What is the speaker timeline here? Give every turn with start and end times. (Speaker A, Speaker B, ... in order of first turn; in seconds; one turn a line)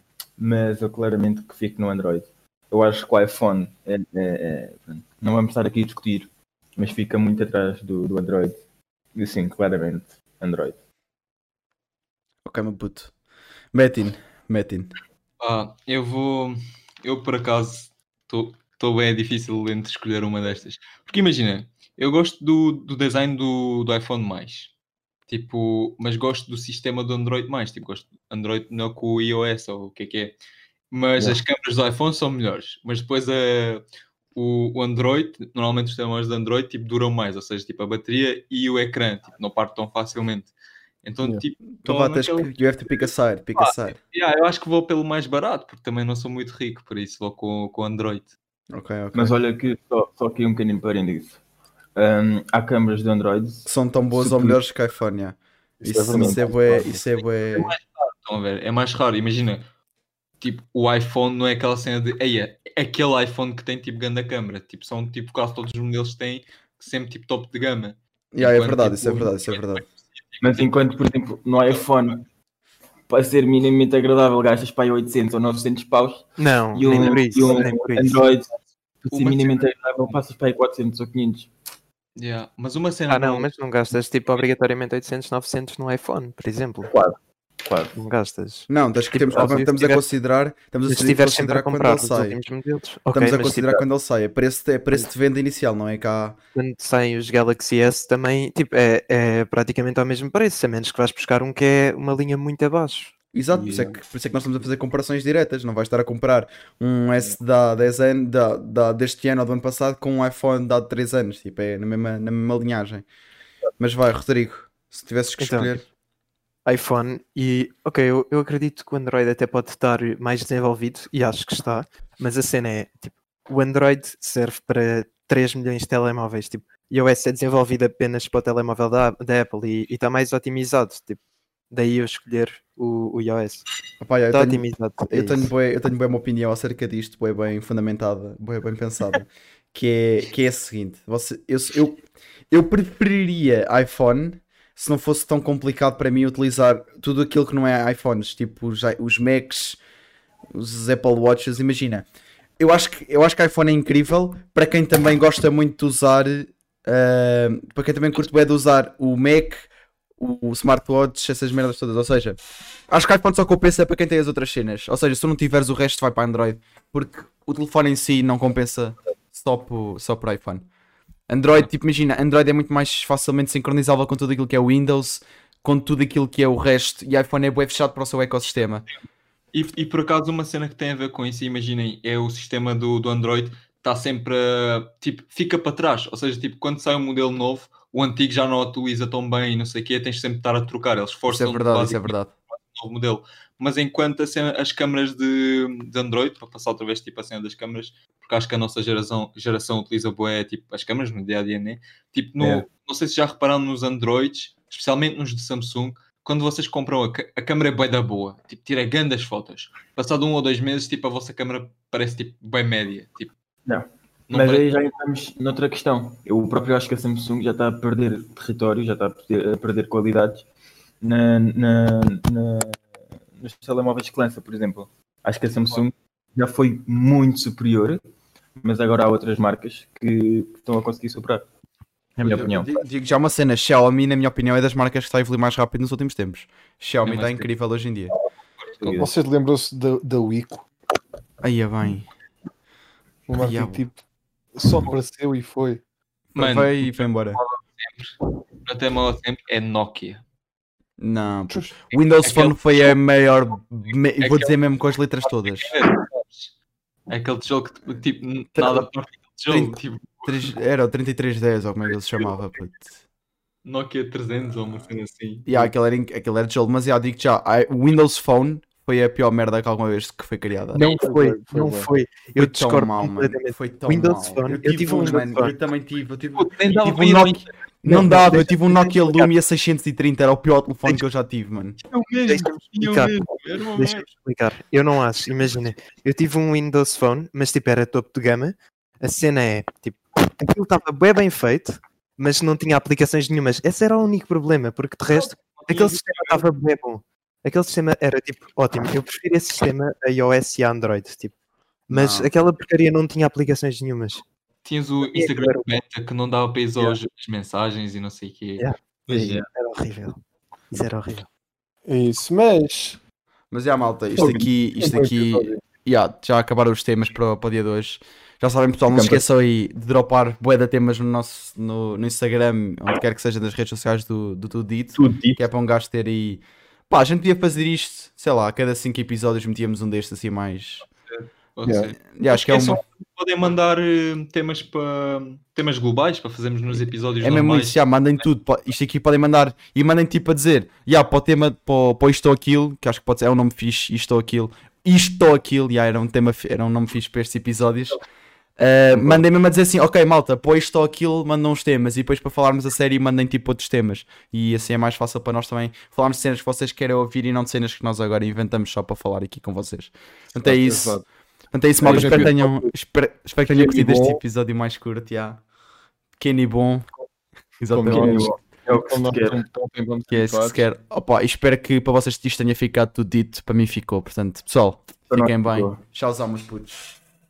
Speaker A: 0.4-8.6
Speaker A: 9.2-10.8
Speaker B: 12.4-13.1
Speaker B: 13.7-14.9
Speaker C: 15.4-24.7
Speaker C: 25.3-30.4
Speaker C: 30.9-43.1
Speaker B: 41.8-44.0
Speaker C: 43.6-48.3
Speaker B: 48.7-49.4
Speaker A: 49.1-51.4
Speaker A: 52.0-54.6
Speaker B: 53.7-57.7
Speaker D: 56.0-56.9
Speaker A: 56.1-56.5
Speaker C: 57.5-59.6
Speaker C: 60.4-70.9
Speaker B: 68.3-69.8
Speaker A: 70.4-72.2
Speaker C: 71.7-72.2
Speaker A: 73.1-78.5
Speaker E: 76.4-78.2
Speaker C: 76.9-77.2
Speaker A: 79.0-81.5
Speaker C: 79.1-80.2
Speaker C: 82.2-83.5
Speaker E: 83.1-86.9
Speaker A: 86.9-88.0
Speaker E: 88.0-90.1
Speaker B: 88.7-92.4
Speaker E: 90.9-93.8
Speaker B: 93.1-96.4
Speaker E: 96.5-103.1
Speaker B: 103.3-113.1
Speaker A: 103.5-103.9
Speaker B: 113.8-115.8
Speaker E: 115.4-115.8
Speaker E: 116.7-131.2
Speaker E: 131.7-133.7
Speaker B: 134.0-149.8
Speaker E: 134.3-135.5
Speaker B: 150.5-152.1
Speaker B: 152.6-162.4
Speaker B: 162.9-170.7
Speaker B: 171.3-178.8
Speaker C: 179.5-213.3
Speaker B: 191.3-192.3
Speaker A: 202.4-202.7
Speaker A: 213.7-220.5
Speaker C: 214.3-214.7
Speaker A: 221.0-222.9
Speaker A: 223.4-228.0
Speaker A: 228.6-231.4
Speaker A: 232.2-232.8
Speaker B: 232.2-238.1
Speaker C: 237.1-237.5
Speaker C: 238.6-238.9
Speaker A: 238.8-239.1
Speaker D: 239.0-240.7
Speaker B: 241.4-242.1
Speaker D: 243.3-244.0
Speaker B: 243.4-243.8
Speaker D: 244.6-245.8
Speaker B: 246.3-247.4
Speaker C: 246.4-250.2
Speaker B: 251.0-255.7
Speaker C: 252.2-252.9
Speaker C: 254.2-254.6
Speaker C: 255.2-256.5
Speaker C: 257.1-260.5
Speaker B: 258.6-258.9
Speaker B: 259.5-263.0
Speaker C: 263.6-265.7
Speaker B: 265.5-270.8
Speaker E: 270.7-275.6
Speaker D: 270.8-271.9
Speaker B: 272.4-281.8
Speaker C: 276.4-277.5
Speaker E: 277.9-279.3
Speaker C: 281.8-284.1
Speaker E: 282.3-283.1
Speaker E: 283.7-301.3
Speaker C: 295.1-296.4
Speaker E: 301.9-304.2
Speaker C: 301.9-302.3
Speaker C: 304.6-308.7
Speaker E: 305.1-305.7
Speaker E: 308.6-310.2
Speaker A: 309.1-309.5
Speaker E: 310.7-311.3
Speaker D: 311.9-313.0
Speaker B: 313.5-330.9
Speaker A: 314.2-314.5
Speaker D: 314.2-315.6
Speaker A: 318.9-319.2
Speaker A: 325.0-325.4
Speaker C: 331.1-337.8
Speaker B: 332.0-332.8
Speaker B: 337.2-348.0
Speaker B: 348.6-360.9
Speaker A: 348.9-349.2
Speaker D: 360.4-361.0
Speaker B: 361.5-365.4
Speaker D: 361.8-362.7
Speaker A: 361.8-362.3
Speaker D: 363.5-364.2
Speaker B: 366.2-366.9
Speaker B: 367.6-368.3
Speaker D: 367.7-370.6
Speaker A: 367.9-369.4
Speaker B: 370.1-376.9
Speaker A: 375.1-375.8